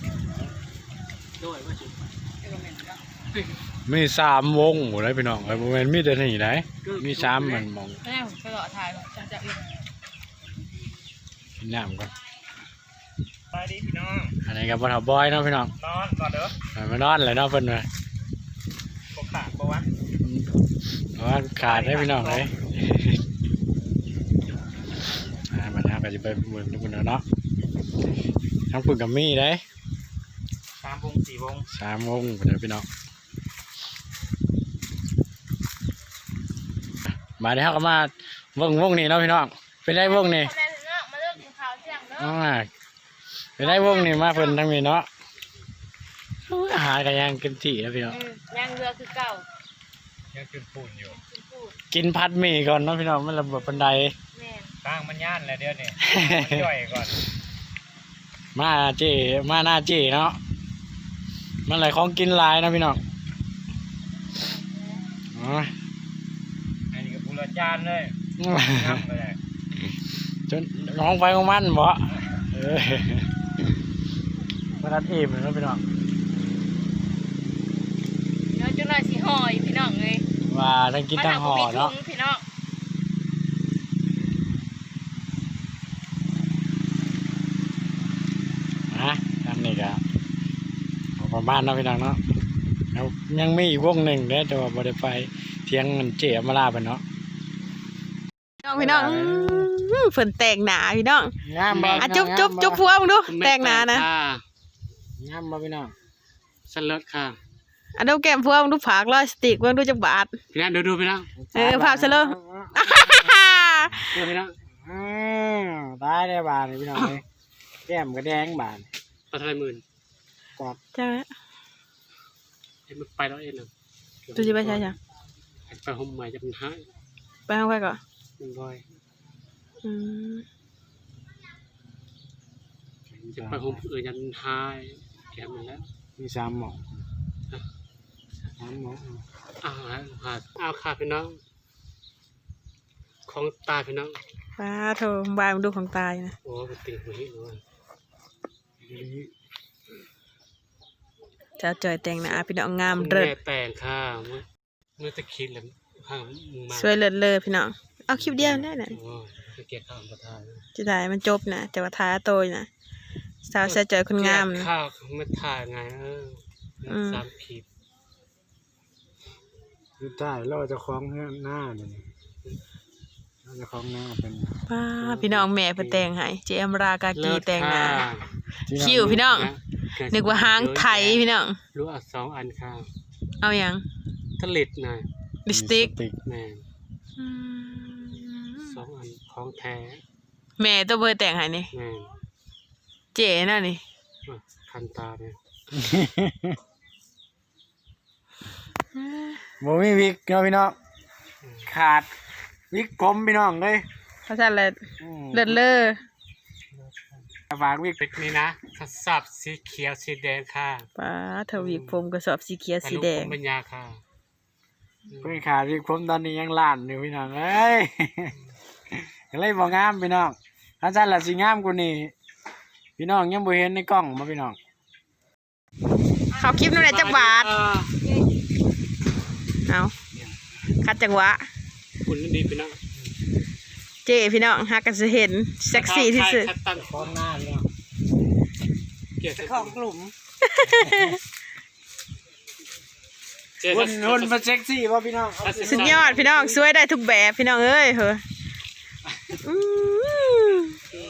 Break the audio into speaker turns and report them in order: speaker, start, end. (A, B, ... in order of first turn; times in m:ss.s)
0:03.9-0:08.0 A
0:06.8-0:07.6 B
0:11.6-0:12.1 A
0:13.5-0:14.3 B
0:14.4-0:15.7 A
0:15.8-0:16.5 B
0:16.7-0:17.9 A
0:19.1-0:19.8 B
0:20.2-0:20.5 A
0:21.2-0:23.2 A
0:21.7-0:22.4 B
0:25.5-0:27.2 A
0:28.7-0:29.6 A
0:30.8-0:31.6 B
0:31.7-0:32.9 A
0:37.4-0:40.5 A
0:40.0-0:42.3 C
0:42.2-0:42.7 A
0:43.6-0:45.1 A
0:43.6-0:44.4 C
0:46.5-0:48.2 A
0:48.1-0:49.4 C
0:50.3-0:51.2 B
0:51.3-0:51.7 C
0:51.9-0:54.1 A
0:54.4-0:54.7 C
0:54.8-0:57.1 B
0:56.0-0:56.7 A
0:58.5-1:00.4 A
1:01.6-1:03.0 A
1:05.3-1:05.7 A
1:06.9-1:08.2 B
1:08.4-1:09.0 A
1:08.7-1:09.4 B
1:10.5-1:13.3 A
1:14.8-1:15.8 A
1:18.5-1:20.2 C
1:20.5-1:21.9 A
1:21.1-1:22.4 C
1:28.9-1:30.0 A
1:31.2-1:32.2 A
1:32.9-1:37.0 A
1:38.6-1:41.3 D
1:38.7-1:39.7 A
1:41.4-1:42.8 A
1:41.7-1:42.1 E
1:42.0-1:44.0 D
1:43.3-1:44.4 E
1:45.2-1:45.9 A
1:46.7-1:47.4 E
1:48.0-1:50.3 D
1:50.5-1:51.3 E
1:51.4-1:53.4 A
1:51.5-1:54.0 D
1:54.1-1:54.6 E
1:54.8-1:57.2 A
1:57.8-1:58.9 A
1:59.3-1:59.8 E
2:00.9-2:01.3 D
2:02.9-2:03.7 E
2:04.2-2:04.9 E
2:04.3-2:05.0 D
2:05.7-2:06.9 E
2:07.5-2:08.0 D
2:08.4-2:08.8 E
2:09.8-2:10.4 D
2:13.1-2:13.8 A
2:13.2-2:15.9 E
2:16.2-2:16.9 A
2:18.6-2:19.2 A
2:19.6-2:21.4 E
2:23.2-2:24.2 E
2:24.6-2:26.4 D
2:26.4-2:27.6 E
2:28.8-2:29.3 A
2:31.6-2:33.4 D
2:32.9-2:34.4 E
2:35.0-2:37.0 E
2:36.7-2:39.0 D
2:38.2-2:40.6 E
2:40.7-2:42.7 D
2:43.4-2:44.7 D
2:43.6-2:47.7 E
2:46.9-2:47.2 D
2:50.0-2:52.1 A
2:53.4-2:54.6 A
2:54.7-2:58.0 D
2:55.0-2:56.1 E
2:57.2-2:58.3 E
2:58.7-2:59.2 A
2:58.7-2:59.5 D
2:59.0-3:02.9 E
3:00.1-3:01.6 D
3:03.4-3:03.8 D
3:04.4-3:05.0 E
3:05.4-3:05.9 D
3:05.5-3:06.2 A
3:06.2-3:06.6 E
3:07.2-3:08.8 D
3:08.6-3:10.0 E
3:10.6-3:11.7 D
3:11.7-3:12.1 E
3:13.1-3:13.8 D
3:14.2-3:15.4 E
3:15.7-3:16.6 A
3:19.0-3:19.4 D
3:19.6-3:20.7 A
3:21.6-3:22.1 A
3:22.7-3:23.8 A
3:24.3-3:24.8 D
3:25.0-3:25.6 A
3:25.3-3:26.0 D
3:26.8-3:27.2 E
3:27.5-3:28.0 A
3:28.0-3:30.9 E
3:30.9-3:33.4 D
3:31.5-3:32.0 E
3:32.8-3:34.0 E
3:35.1-3:35.4 E
3:35.2-3:38.3 A
3:39.0-3:42.1 A
3:43.0-3:44.6 A
3:46.3-3:47.5 D
3:46.6-3:47.9 E
3:49.7-3:49.9 D
3:50.8-3:51.4 D
3:52.0-3:52.8 E
3:54.0-3:56.5 D
3:55.7-3:57.1 E
3:56.8-3:57.7 A
3:59.2-3:59.8 E
3:59.6-4:00.1 A
4:00.4-4:01.2 D
4:00.6-4:01.1 A
4:03.6-4:04.4 E
4:03.7-4:06.6 A
4:05.4-4:06.1 E
4:05.7-4:08.2 D
4:09.4-4:10.8 D